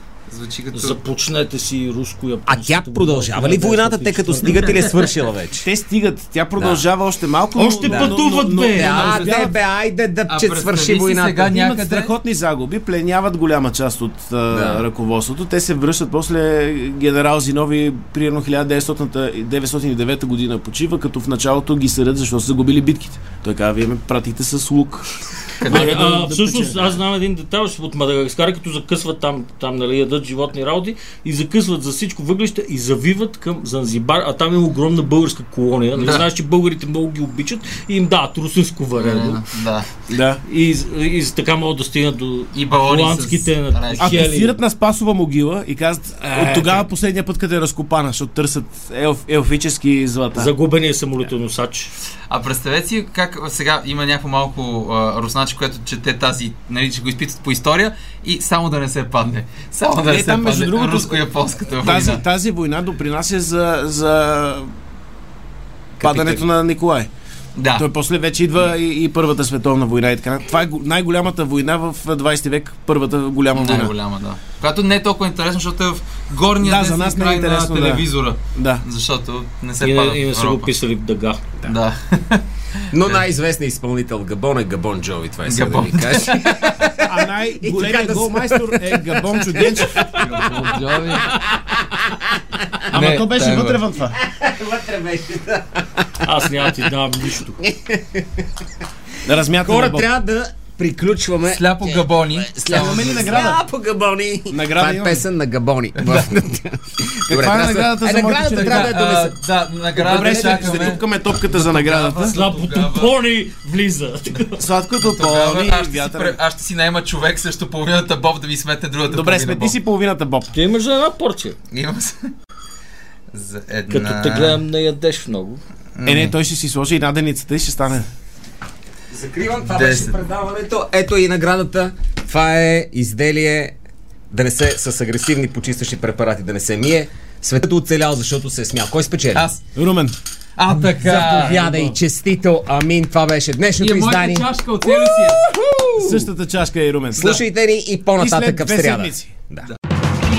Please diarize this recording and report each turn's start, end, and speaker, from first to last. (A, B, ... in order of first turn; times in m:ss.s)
0:00.3-0:01.0 A
0:00.7-0:04.8 B
0:02.5-0:05.7 C
0:04.5-0:05.2 A
0:05.6-0:09.5 D
0:06.6-0:06.8 C
0:07.6-0:09.3 B
0:07.8-0:08.2 C
0:08.8-0:11.5 C
0:08.8-0:09.2 A
0:10.3-0:12.1 A
0:11.5-0:27.0 D
0:14.5-0:14.8 C
0:25.5-0:25.9 A
0:25.7-0:39.4 B
0:36.0-0:36.3 A
0:39.0-0:39.9 A
0:40.1-0:40.4 D
0:40.4-0:44.6 B
0:42.5-0:44.3 A
0:44.0-0:50.5 D
0:46.2-0:46.8 B
0:50.3-0:51.9 B
0:52.3-1:02.2 A
1:00.0-1:04.7 D
1:06.0-1:06.4 C
1:06.0-1:07.1 D
1:07.6-1:07.9 A
1:07.8-1:13.9 D
1:13.5-1:20.7 A
1:16.6-1:18.8 D
1:19.8-1:21.5 B
1:21.6-1:23.3 A
1:22.9-1:32.6 C
1:25.5-1:26.5 A
1:27.0-1:30.5 D
1:30.2-1:31.3 A
1:32.9-1:33.8 A
1:32.9-1:34.2 D
1:34.2-1:36.3 C
1:36.2-1:37.6 B
1:37.6-1:38.5 C
1:39.2-1:40.1 D
1:39.6-1:49.3 C
1:41.5-1:43.6 A
1:42.7-1:43.6 D
1:44.5-1:45.2 D
1:46.0-1:46.3 A
1:47.3-1:49.0 D
1:48.4-1:53.1 A
1:50.0-1:52.4 D
1:50.1-1:50.9 C
1:52.2-1:54.7 B
1:54.6-1:56.4 D
1:55.0-1:59.8 A
1:59.1-2:00.5 D
2:00.5-2:01.6 B
2:01.7-2:02.3 A
2:03.3-2:04.6 A
2:03.9-2:05.6 B
2:06.0-2:06.3 A
2:06.0-2:08.1 D
2:09.1-2:13.8 C
2:09.7-2:10.2 A
2:14.3-2:19.5 C
2:19.3-2:19.6 A
2:19.7-2:20.2 D
2:20.6-2:21.8 A
2:20.7-2:26.2 C
2:21.2-2:22.0 B
2:23.8-2:25.5 A
2:26.0-2:27.4 D
2:27.2-2:27.4 A
2:27.2-2:29.6 C
2:28.2-2:29.3 D